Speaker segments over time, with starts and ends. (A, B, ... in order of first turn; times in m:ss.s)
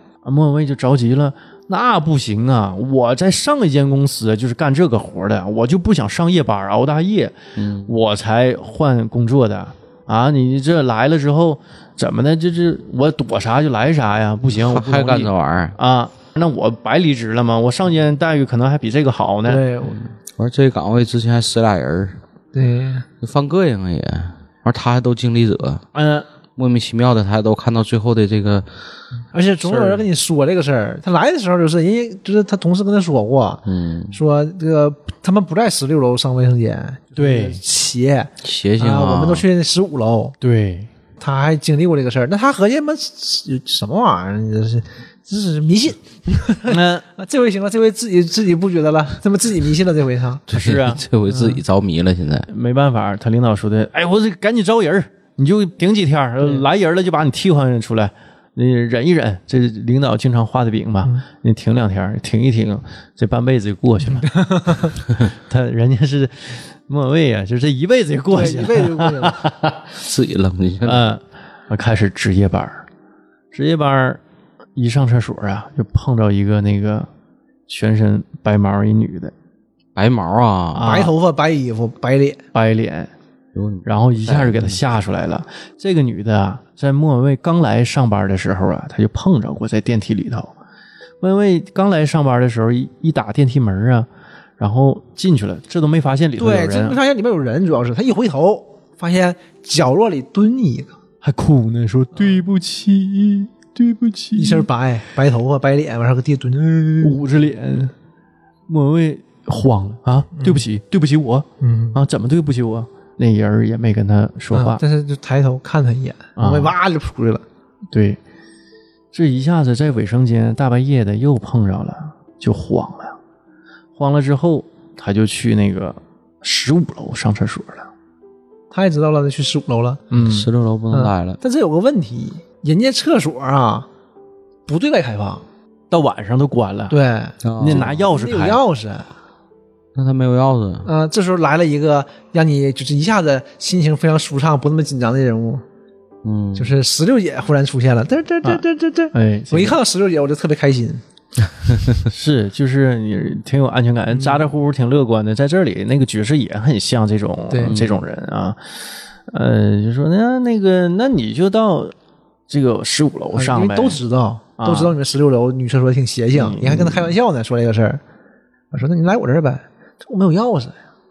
0:00.2-0:19.6 A
0:07.6-0:08.0 B
0:14.5-0:15.8 B
0:19.5-0:20.0 C
0:20.3-0:22.2 B
0:22.5-0:23.1 C
0:23.2-0:25.8 B
0:25.9-0:26.3 A
0:26.6-0:28.7 B
0:29.3-0:40.4 C
0:29.6-0:30.0 A
0:33.7-0:34.2 B
0:37.2-0:37.6 A
0:38.4-0:39.4 B
0:40.4-0:40.9 A
0:41.2-0:50.4 C
0:46.7-0:47.0 A
0:50.5-0:52.5 B
0:50.5-0:51.0 A
0:51.3-0:51.6 C
0:52.5-1:09.9 A
1:04.0-1:05.0 C
1:08.3-1:09.5 C
1:10.0-1:11.0 B
1:10.8-1:12.9 A
1:13.5-1:14.2 A
1:14.8-1:17.1 A
1:17.7-1:19.3 A
1:20.0-1:20.9 B
1:20.7-1:21.1 A
1:20.8-1:22.4 C
1:22.5-1:23.1 A
1:23.6-1:24.8 B
1:23.8-1:30.5 A
1:31.2-1:34.1 A
1:34.6-1:37.0 A
1:36.4-1:40.9 C
1:41.2-1:44.7 A
1:44.4-1:47.2 C
1:47.0-1:47.9 A
1:48.7-1:54.8 A
1:50.3-1:50.6 C
1:51.6-1:52.0 C
1:54.5-1:57.4 C
1:56.4-1:56.8 A
1:57.9-1:58.2 A
1:59.1-2:03.2 A
2:04.0-2:07.9 A
2:08.7-2:10.1 C
2:10.1-2:10.5 A
2:10.2-2:11.4 B
2:10.9-2:13.9 C
2:14.7-2:15.4 C
2:15.9-2:17.0 A
2:16.9-2:19.1 C
2:17.4-2:17.9 B
2:17.6-2:18.6 A
2:20.0-2:20.9 B
2:20.8-2:25.6 C
2:26.2-2:26.7 B
2:26.6-2:31.0 C
2:29.1-2:29.8 A
2:32.1-2:41.9 A
2:34.1-2:34.4 C
2:37.5-2:37.8 C
2:37.6-2:38.0 B
2:42.5-2:44.0 A
2:43.3-2:48.0 C
2:44.6-2:45.0 A
2:46.3-2:47.1 A
2:48.7-2:50.8 C